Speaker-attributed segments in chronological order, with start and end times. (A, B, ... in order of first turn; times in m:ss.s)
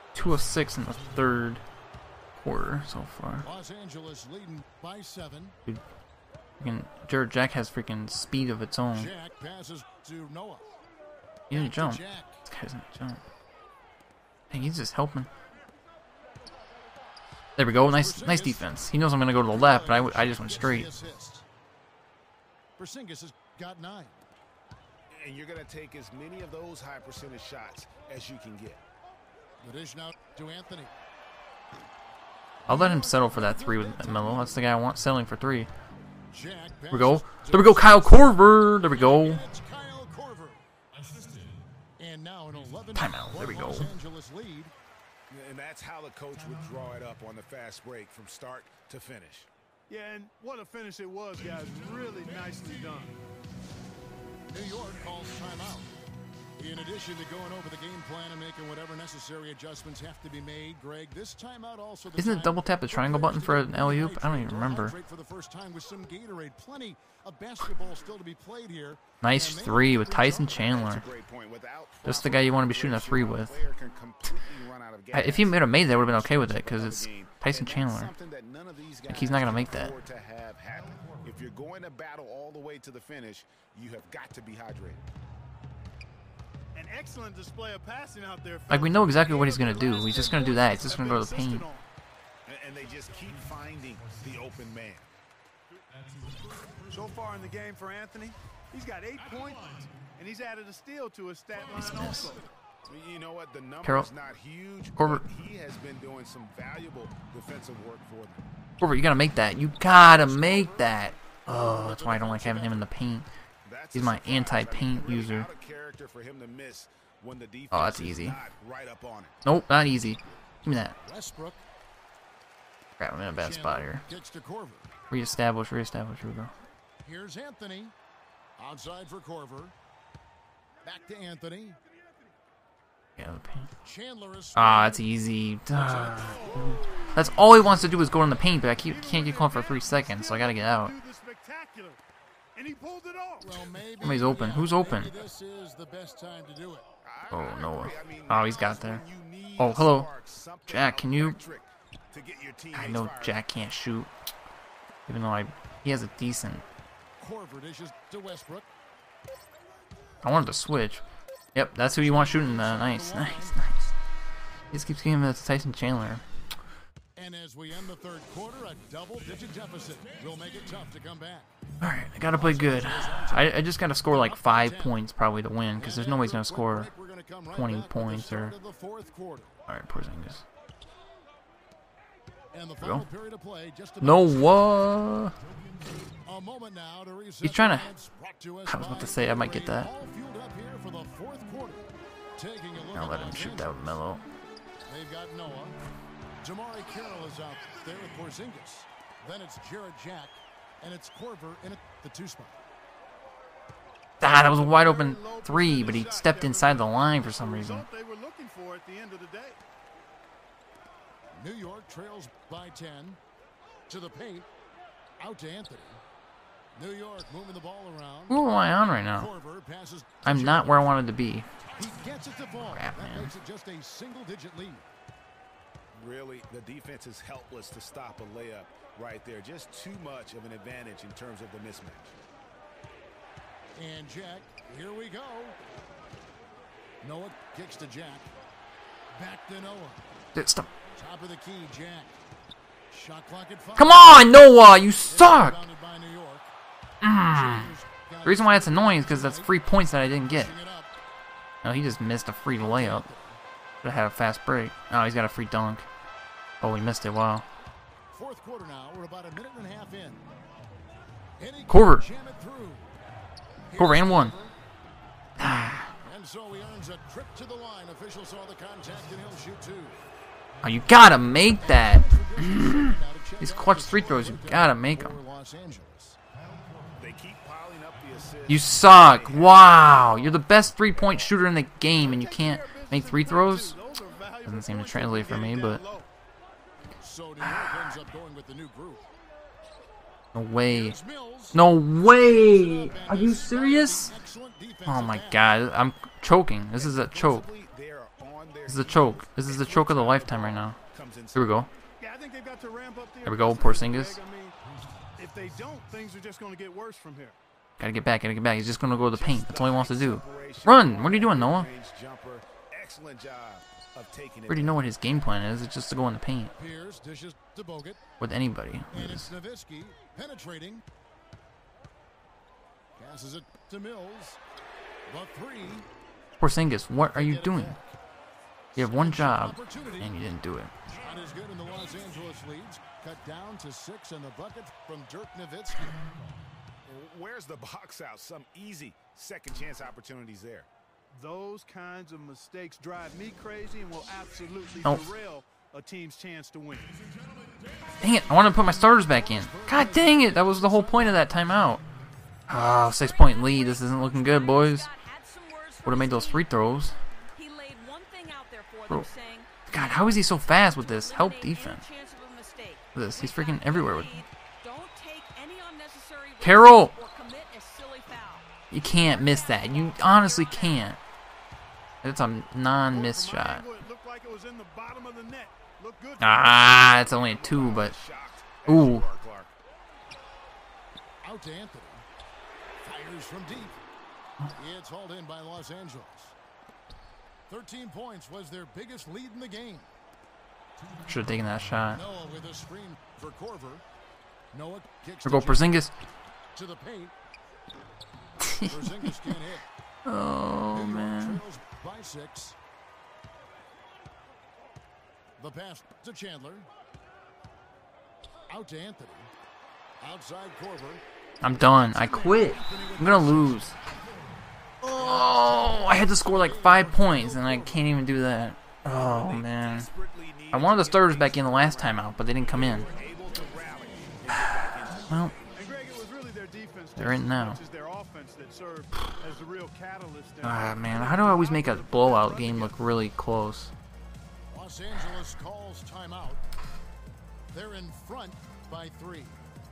0:00.1-0:01.6 A
0:02.4-0:03.4 A
0:03.4-0:05.6 B
0:06.6-0:09.1 A
0:08.9-0:10.7 B
0:11.5-0:12.4 B
0:11.5-0:13.2 A
0:14.5-0:15.3 A
0:17.6-0:20.9 A
0:17.8-0:18.7 B
0:19.4-0:21.4 B
0:22.8-0:24.2 B
0:25.1-0:28.8 C
0:29.6-0:30.9 B
0:32.6-0:34.6 B
0:32.7-0:35.7 A
0:36.3-0:40.6 B
0:36.9-0:39.4 A
0:42.0-0:44.7 B
0:43.0-0:43.9 A
0:45.3-0:49.5 C
0:49.9-0:53.2 D
0:54.5-0:56.0 B
0:56.6-1:10.9 B
1:02.1-1:04.9 A
1:09.2-1:11.0 A
1:10.5-1:25.0 C
1:12.0-1:13.6 A
1:15.1-1:18.1 A
1:19.1-1:19.9 A
1:26.7-1:31.9 D
1:28.7-1:31.6 A
1:32.4-1:35.1 C
1:36.9-1:42.4 D
1:41.7-1:42.3 A
1:42.8-1:48.4 C
1:45.0-1:45.2 A
1:48.8-1:53.3 A
1:49.8-1:52.9 B
1:53.6-1:59.4 C
1:53.9-1:55.5 A
1:57.7-1:58.4 A
1:59.4-2:01.0 A
2:01.0-2:01.6 B
2:03.0-2:04.0 A
2:03.3-2:04.9 B
2:05.1-2:06.5 A
2:07.0-2:07.9 B
2:08.6-2:09.7 B
2:10.8-2:11.8 B
2:13.2-2:13.7 A
2:13.8-2:15.1 B
2:14.5-2:20.9 A
2:15.7-2:16.8 B
2:17.5-2:17.9 B
2:18.8-2:22.0 D
2:22.5-2:23.6 D
2:23.4-2:26.9 B
2:24.0-2:25.1 A
2:27.0-2:33.4 C
2:27.3-2:29.0 A
2:29.6-2:30.1 A
2:30.7-2:31.4 A
2:32.7-2:34.1 A
2:35.1-2:36.6 A
2:37.2-2:38.7 B
2:40.2-2:41.0 A
2:41.5-2:43.9 A
2:41.9-2:43.7 B
2:44.7-2:46.2 A
2:47.2-2:51.6 B
2:51.8-2:56.9 A
2:52.2-2:55.0 B
2:55.8-2:59.5 B
2:57.5-2:58.5 A
2:59.7-3:00.4 A
3:02.5-3:04.7 B
3:02.8-3:03.0 A
3:04.0-3:05.3 A
3:06.2-3:14.0 B
3:07.4-3:07.9 A
3:08.7-3:09.9 A
3:12.9-3:14.2 A
3:14.8-3:15.8 B
3:16.4-3:22.6 B
3:24.2-3:27.8 A
3:24.2-3:29.6 D
3:31.3-3:33.2 B
3:33.9-3:34.5 B
3:35.2-3:36.0 B
3:36.7-3:38.5 B
3:38.3-3:39.3 A
3:39.1-3:41.1 B
3:40.2-3:41.5 A
3:41.6-3:44.8 B
3:42.7-3:43.3 A
3:45.9-3:52.2 C
3:53.7-3:55.6 B
3:57.0-3:58.3 B
3:59.1-4:00.1 B
4:00.3-4:00.7 A
4:00.9-4:02.2 B
4:02.9-4:04.4 B
4:03.8-4:05.6 A
4:05.0-4:06.5 B
4:07.0-4:07.7 A
4:07.2-4:10.9 B
4:08.2-4:10.5 A
4:11.6-4:13.0 A
4:12.6-4:13.4 B
4:13.8-4:15.8 A
4:16.6-4:17.5 A
4:18.1-4:20.2 B
4:21.4-4:22.9 B
4:21.7-4:22.0 A
4:23.7-4:24.5 B
4:23.7-4:24.3 A
4:25.4-4:25.9 A
4:26.0-4:30.1 B
4:30.6-4:35.2 A
4:31.2-4:36.2 B
4:36.8-4:41.4 C
4:38.5-4:43.8 A
4:42.0-4:46.1 D
4:44.4-4:45.8 A
4:47.0-4:49.1 B
4:50.3-4:51.0 A
4:50.6-4:51.7 B
4:51.5-4:54.1 A
4:52.3-4:55.6 B
4:54.8-4:57.4 A
4:56.7-5:01.6 C
4:58.7-5:00.8 A
5:01.3-5:01.7 A
5:02.0-5:04.6 D
5:03.2-5:04.2 A
5:05.2-5:07.4 D
5:07.8-5:11.7 A
5:09.0-5:14.9 C
5:14.5-5:16.5 A
5:16.5-5:18.1 B
5:18.2-5:19.3 A
5:18.9-5:20.8 B
5:23.0-5:24.4 B
5:25.1-5:25.9 B
5:26.4-5:27.8 A
5:27.0-5:28.0 B
5:28.7-5:30.1 B
5:28.8-5:30.7 A
5:30.9-5:36.0 B
5:36.8-5:40.7 C
5:41.1-5:46.9 D
5:48.0-5:51.7 B
5:48.0-5:51.8 A
5:52.5-5:54.9 A
5:52.6-5:56.6 E
5:55.8-5:57.0 A
5:57.3-6:11.0 E
5:59.7-6:01.8 A
6:02.9-6:04.1 A
6:06.4-6:06.9 A
6:08.7-6:11.0 A
6:12.0-6:13.6 A
6:12.9-6:16.8 D
6:16.2-6:17.9 A
6:16.7-6:19.5 C
6:18.6-6:19.0 A
6:21.2-6:22.0 B
6:22.8-6:23.8 B
6:24.5-6:26.4 B
6:27.5-6:29.9 B
6:31.0-6:32.0 A
6:31.9-6:33.8 B
6:34.5-6:35.8 B
6:35.2-6:35.9 A
6:36.5-6:37.1 B
6:38.4-6:38.8 A
6:38.6-6:39.6 B
6:40.0-6:41.4 A
6:40.7-6:42.6 B
6:45.4-6:46.7 B
6:48.5-6:49.3 B
6:50.0-6:53.8 B
6:51.4-6:53.7 A
6:54.8-6:58.0 B
6:54.8-6:59.9 A
6:58.8-7:05.4 C
7:00.5-7:02.9 A
7:04.3-7:05.3 A
7:05.5-7:12.8 D
7:07.0-7:07.6 A
7:10.4-7:13.7 A
7:14.5-7:16.4 B
7:17.5-7:19.4 B